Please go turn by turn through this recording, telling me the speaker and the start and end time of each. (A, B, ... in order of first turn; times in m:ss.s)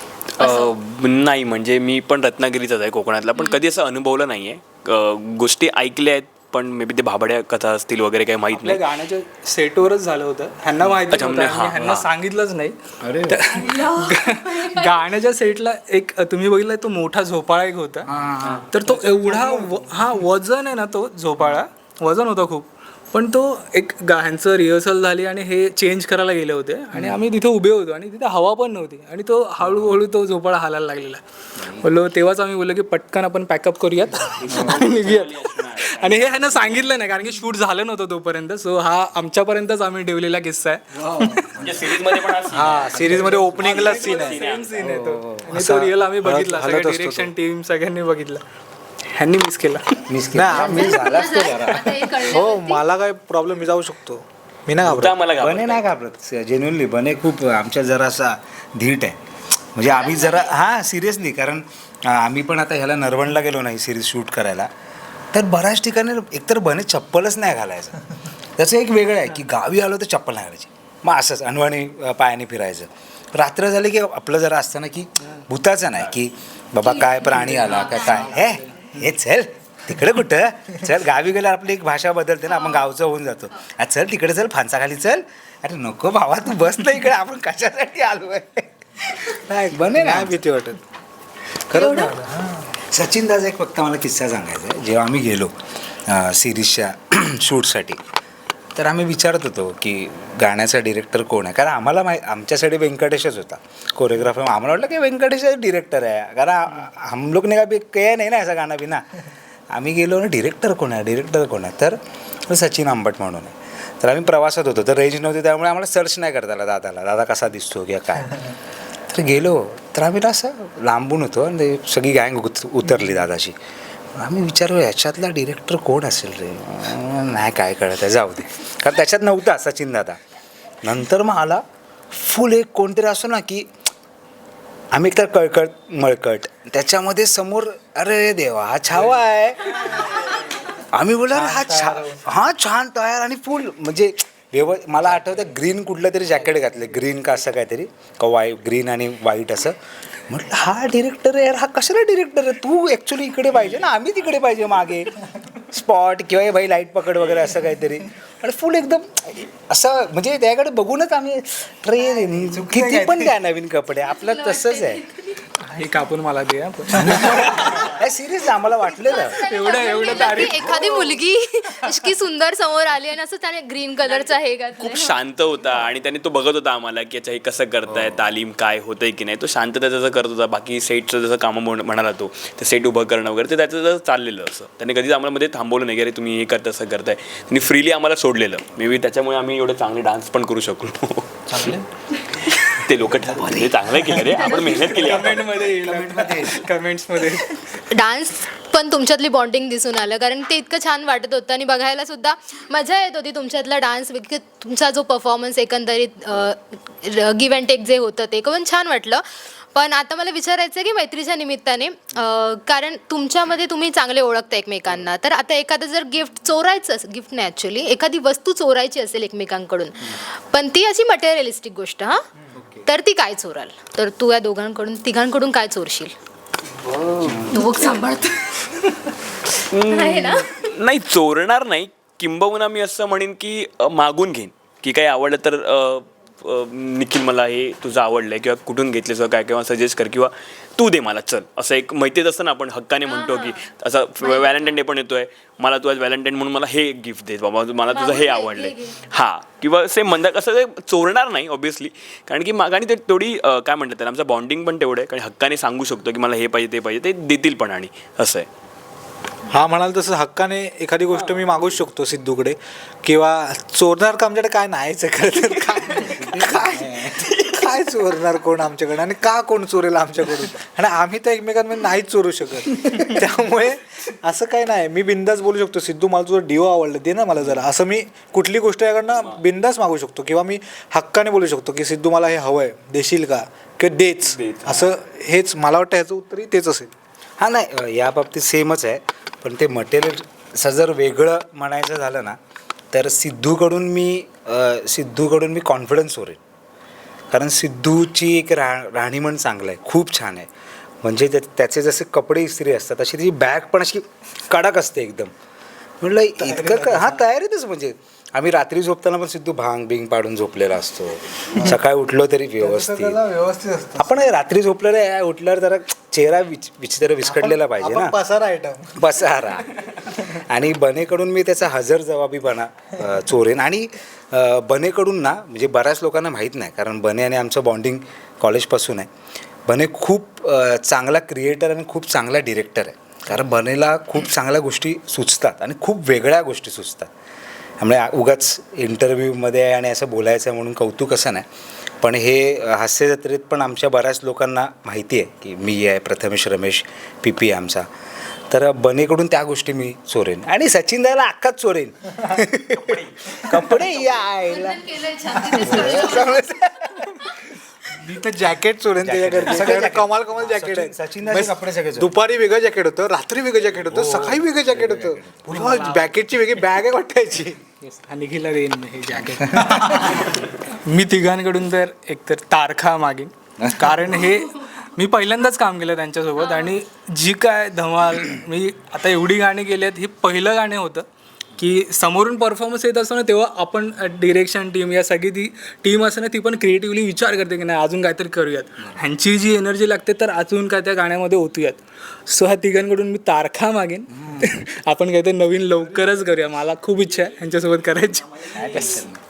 0:00.4-0:08.8 A
0:00.4-0:00.7 B
0:08.5-0:12.8 C
0:11.1-0:12.1 A
0:13.0-0:13.4 D
0:13.3-0:18.1 C
0:13.5-0:15.1 B
0:18.1-0:18.7 D
0:18.7-0:31.2 C
0:18.8-0:19.9 E
0:27.0-0:27.2 D
0:31.8-0:41.4 C
0:34.4-0:36.9 A
0:41.0-0:41.4 E
0:41.6-0:45.0 A
0:42.5-0:44.5 E
0:43.3-0:48.4 C
0:45.1-0:45.4 D
0:45.5-0:47.3 E
0:49.1-0:49.9 C
0:50.1-0:52.1 D
0:50.3-0:51.0 E
0:50.7-0:52.8 B
0:52.3-0:55.2 E
0:54.8-0:55.9 A
0:55.4-0:59.2 D
0:59.8-1:04.7 D
0:59.9-1:00.6 B
1:05.3-1:08.0 D
1:08.6-1:29.1 D
1:16.8-1:18.4 B
1:22.5-1:22.9 B
1:29.3-1:30.8 E
1:29.7-1:30.4 D
1:31.7-1:32.2 D
1:31.7-1:32.2 B
1:31.9-1:32.6 E
1:32.9-1:35.5 D
1:36.1-1:38.0 D
1:38.8-1:49.0 D
1:49.7-1:58.4 D
1:59.1-2:03.6 D
2:04.2-2:10.2 D
2:10.8-2:13.7 D
2:14.9-2:20.1 D
2:20.9-2:29.8 D
2:21.3-2:22.2 E
2:30.3-2:35.2 D
2:35.7-2:45.0 D
2:42.2-2:43.3 E
2:44.0-2:45.3 B
2:45.7-2:47.7 C
2:47.0-2:49.4 D
2:49.0-2:55.2 B
2:49.5-2:51.2 C
2:54.8-3:11.4 A
2:57.9-2:58.3 D
3:11.6-3:11.8 E
3:12.6-3:15.5 A
3:14.4-3:14.9 B
3:15.0-3:17.5 C
3:15.8-3:16.5 D
3:17.7-3:42.2 B
3:42.8-3:46.1 B
3:46.8-3:47.6 A
3:47.5-3:48.6 B
3:49.6-4:18.5 A
3:49.9-3:50.6 B
4:03.1-4:03.7 B
4:04.2-4:04.8 B
4:07.9-4:09.0 B
4:19.5-4:46.9 E
4:21.2-4:21.5 A
4:26.0-4:27.1 D
4:44.2-4:44.9 A
4:47.4-4:52.4 D
4:52.9-4:56.4 D
4:57.3-5:00.5 D
5:01.0-5:05.3 D
5:06.0-5:13.2 D
5:06.4-5:07.2 E
5:12.6-5:14.2 E
5:14.0-5:18.2 D
5:17.3-5:19.0 E
5:19.0-5:29.1 D
5:29.7-5:37.1 D
5:37.8-5:41.4 D
5:42.0-5:47.9 D
5:48.5-5:54.9 D
5:52.7-5:53.9 A
5:54.4-5:56.5 B
5:55.5-5:56.1 E
5:55.6-5:57.1 D
5:58.0-6:07.6 E
5:59.0-6:02.1 D
6:03.9-6:05.5 D
6:05.5-6:06.1 C
6:07.8-6:39.0 C
6:16.4-6:16.7 B
6:38.6-6:39.2 D